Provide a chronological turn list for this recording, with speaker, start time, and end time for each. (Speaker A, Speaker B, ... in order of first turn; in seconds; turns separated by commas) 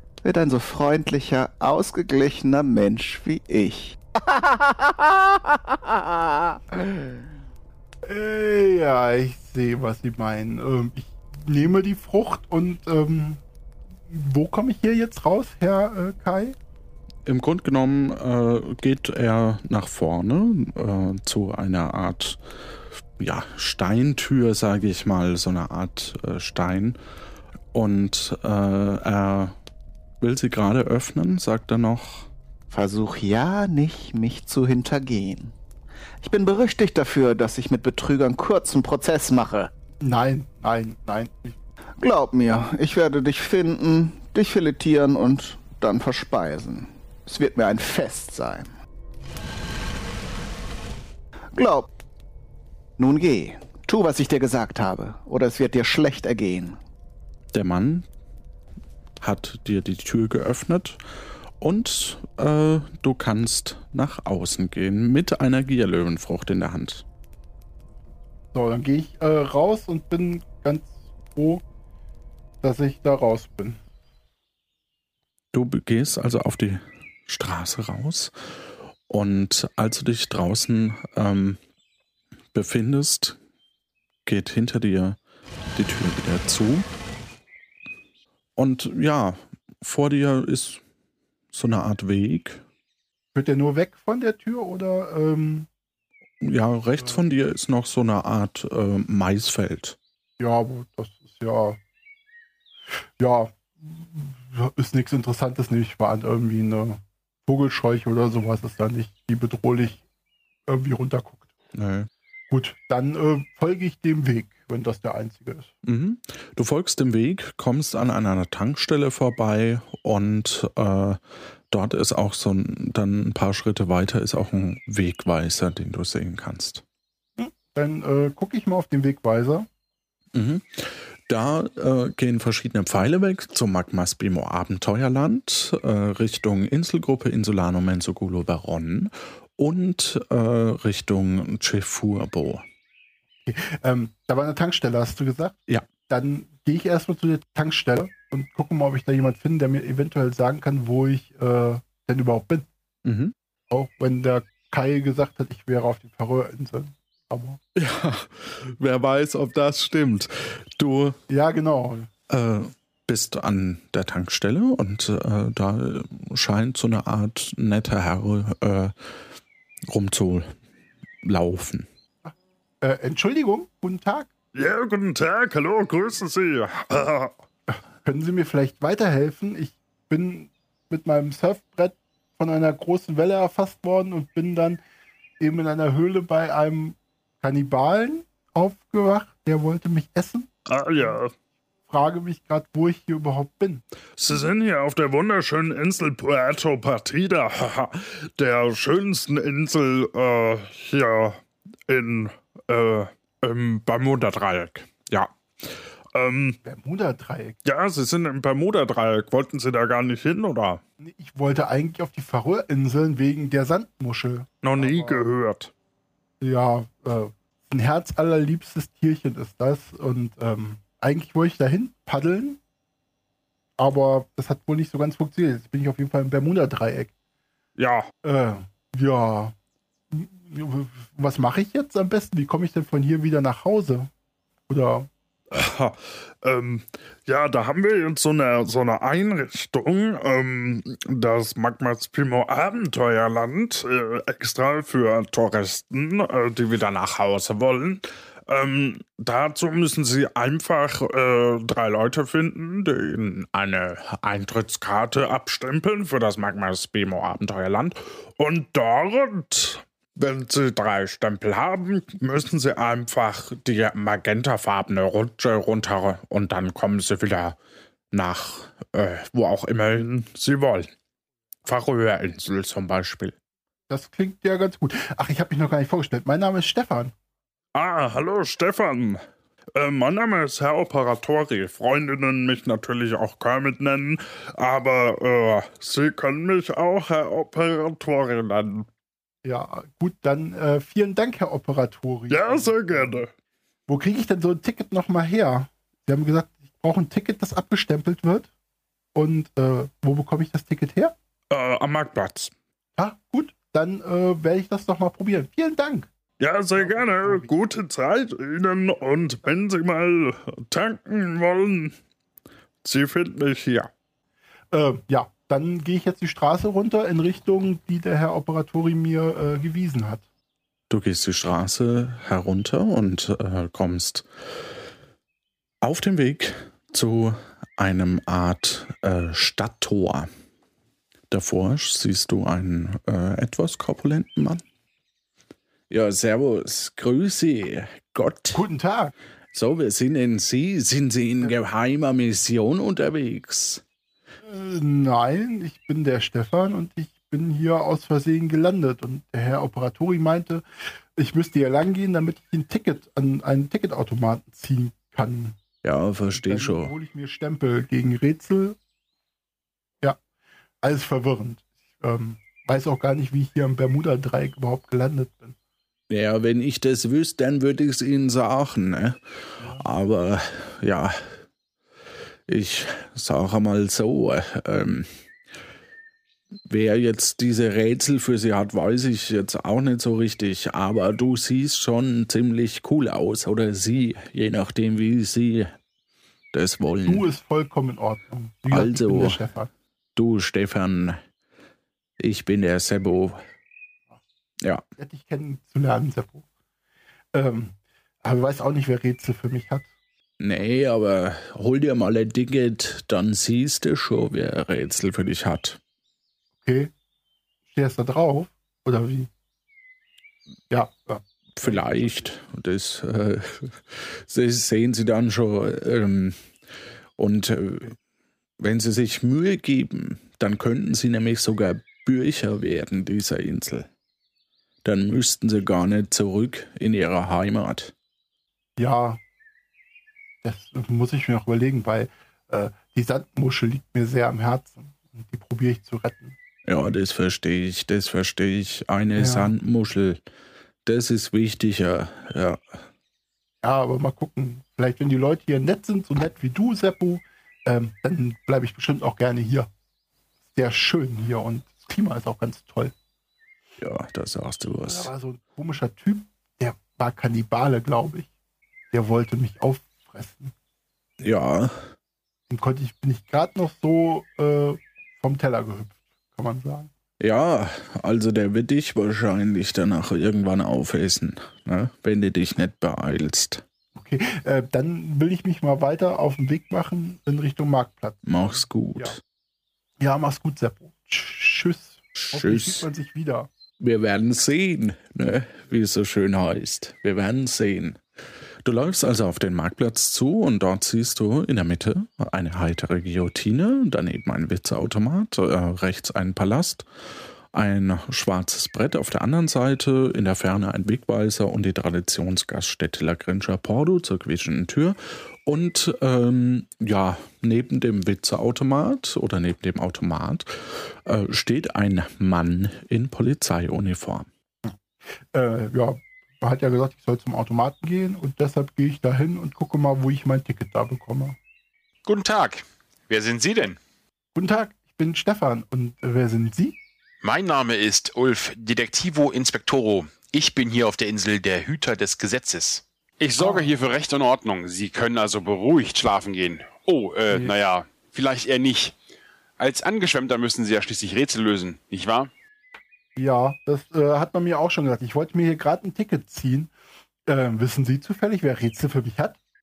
Speaker A: 0.2-7.1, Speaker B: 8.0-13.4, Speaker B: 14.1-16.6, Speaker C: 17.2-22.4, Speaker C: 23.2-27.0, Speaker C: 27.7-29.5, Speaker C: 30.2-32.3, Speaker A: 32.7-35.5, Speaker A: 36.2-39.7, Speaker B: 40.0-41.5, Speaker A: 42.0-48.7, Speaker A: 51.5-51.9, Speaker A: 53.0-56.8, Speaker C: 57.5-58.0, Speaker C: 59.2-61.0, Speaker C: 61.6-67.0, Speaker B: 68.5-71.6, Speaker B: 72.6-73.8, Speaker C: 75.5-78.3, Speaker C: 79.1-81.6, Speaker C: 82.5-83.4, Speaker C: 84.2-85.2, Speaker C: 85.7-86.8, Speaker C: 88.6-90.8, Speaker C: 91.5-92.6, Speaker B: 93.3-95.7, Speaker C: 96.4-100.0, Speaker B: 100.4-101.8, Speaker B: 103.2-110.0, Speaker B: 110.7-111.5, Speaker C: 111.7-112.1, Speaker B: 112.5-115.7, Speaker C: 115.8-121.2, Speaker C: 121.7-126.8, Speaker B: 127.4-129.7, Speaker C: 130.3-142.6, Speaker B: 143.4-152.7, Speaker C: 153.0-153.3, Speaker B: 153.7-157.6, Speaker C: 157.8-161.2, Speaker B: 161.3-162.1, Speaker C: 162.3-168.9, Speaker C: 169.9-170.5, Speaker C: 171.2-171.9, Speaker B: 172.2-174.3, Speaker D: 174.5-177.3, Speaker B: 177.7-184.8, Speaker B: 185.4-190.5, Speaker D: 190.7-191.3, Speaker B: 191.9-193.8, Speaker D: 194.2-205.3, Speaker D: 206.1-206.6, Speaker B: 206.6-207.6, Speaker D: 207.6-210.8, Speaker B: 211.0-215.3, Speaker D: 214.6-215.7, Speaker B: 216.4-222.6, Speaker B: 223.8-227.1, Speaker D: 227.8-228.1, Speaker B: 228.2-229.5, Speaker B: 230.1-234.1, Speaker B: 234.7-235.1, Speaker D: 235.5-253.8, Speaker C: 253.8-254.9, Speaker D: 254.9-256.4, Speaker C: 256.4-257.9, Speaker D: 258.4-263.2, Speaker C: 263.2-267.5, Speaker C: 268.1-270.1, Speaker D: 269.9-270.9, Speaker C: 271.7-273.4, Speaker B: 273.9-277.1, Speaker D: 277.7-279.2, Speaker D: 279.7-288.9, Speaker B: 289.4-293.1, Speaker D: 292.3-293.3, Speaker B: 293.9-298.5, Speaker B: 299.1-301.1, Speaker D: 301.5-302.5, Speaker B: 303.0-306.1, Speaker D: 306.4-311.9, Speaker B: 306.7-307.5, Speaker D: 312.8-313.9, Speaker B: 314.7-320.2, Speaker C: 320.9-324.2, Speaker C: 325.8-330.3, Speaker C: 331.3-334.6, Speaker C: 335.9-338.6, Speaker B: 338.5-339.1, Speaker C: 339.5-343.8, Speaker B: 344.4-350.6, Speaker B: 351.1-355.6, Speaker C: 355.8-356.9, Speaker B: 356.3-358.8, Speaker B: 360.8-365.6, Speaker C: 366.1-369.2, Speaker B: 369.6-369.8, Speaker C: 369.8-371.3, Speaker C: 372.5-375.1, Speaker C: 376.7-385.7, Speaker C: 386.5-387.2, Speaker B: 387.0-389.7, Speaker C: 388.7-389.4, Speaker C: 390.1-391.2, Speaker C: 392.2-393.4, Speaker B: 395.0-396.4, Speaker B: 397.3-399.9, Speaker C: 400.4-405.8, Speaker B: 406.6-406.9, Speaker B: 407.7-409.3, Speaker B: 410.7-412.3, Speaker C: 411.6-416.4, Speaker C: 417.2-417.9, Speaker C: 418.6-423.9, Speaker C: 424.8-427.9, Speaker B: 428.8-429.2, Speaker B: 430.4-436.4, Speaker C: 436.6-440.2, Speaker B: 439.2-439.5, Speaker C: 440.8-442.6, Speaker B: 443.6-449.7, Speaker B: 450.5-452.9, Speaker C: 453.8-455.1, Speaker B: 454.9-458.3, Speaker B: 458.9-460.5, Speaker C: 461.2-461.8, Speaker B: 462.5-466.9, Speaker C: 467.2-473.6, Speaker B: 473.9-479.1, Speaker C: 478.2-479.2, Speaker B: 480.0-483.5, Speaker C: 482.2-482.8, Speaker C: 483.8-488.0, Speaker C: 488.6-496.9, Speaker C: 497.5-514.3, Speaker B: 515.3-521.4, Speaker E: 522.0-523.8, Speaker B: 524.3-526.8, Speaker E: 527.2-539.0, Speaker B: 533.4-533.6, Speaker B: 537.3-537.6, Speaker E: 539.6-542.3, Speaker B: 543.1-546.7, Speaker B: 547.3-549.4